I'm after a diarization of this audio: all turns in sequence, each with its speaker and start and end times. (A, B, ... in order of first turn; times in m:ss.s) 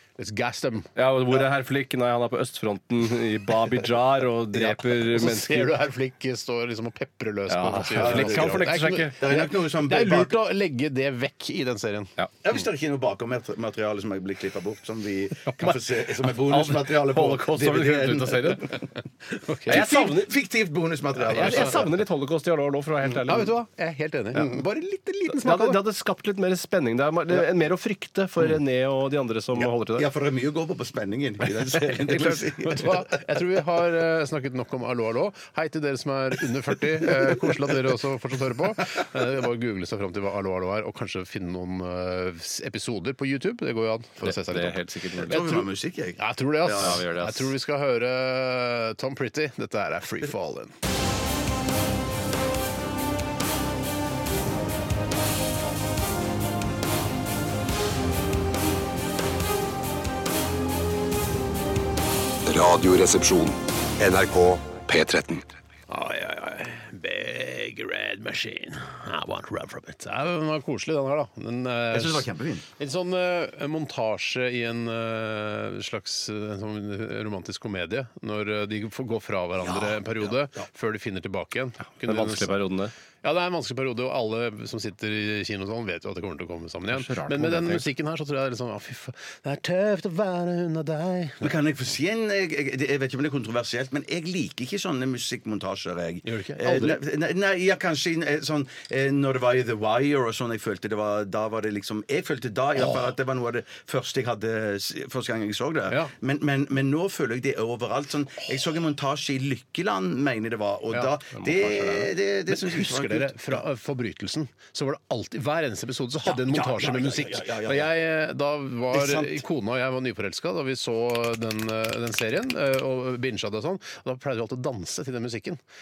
0:00.2-0:00.9 A
0:01.0-0:05.7 B
0:04.6-0:12.1 A
0:07.5-0:09.3 B
0:08.0-0:10.4 C
0:12.4-0:18.7 C
0:16.4-0:18.8 B
0:19.3-0:19.8 A
0:19.6-0:22.0 C
0:19.7-0:20.4 B
0:21.3-0:23.5 B
0:23.2-0:25.8 A
0:24.3-0:24.6 C
0:25.4-0:30.1 B
0:29.6-0:33.2 C
0:32.0-0:50.7 A
0:44.2-0:45.5 B
0:45.2-0:47.0 C
0:46.7-0:47.5 B
1:02.4-1:05.5 D
1:05.9-1:22.5 A
1:11.9-1:12.6 C
1:19.6-1:20.6 C
1:22.0-1:22.9 B
1:23.2-1:31.5 A
1:26.9-1:27.8 B
1:31.4-1:53.6 C
1:36.2-1:37.0 A
1:51.3-1:52.1 B
1:52.5-2:05.6 A
1:56.2-1:57.9 C
1:58.9-1:59.4 C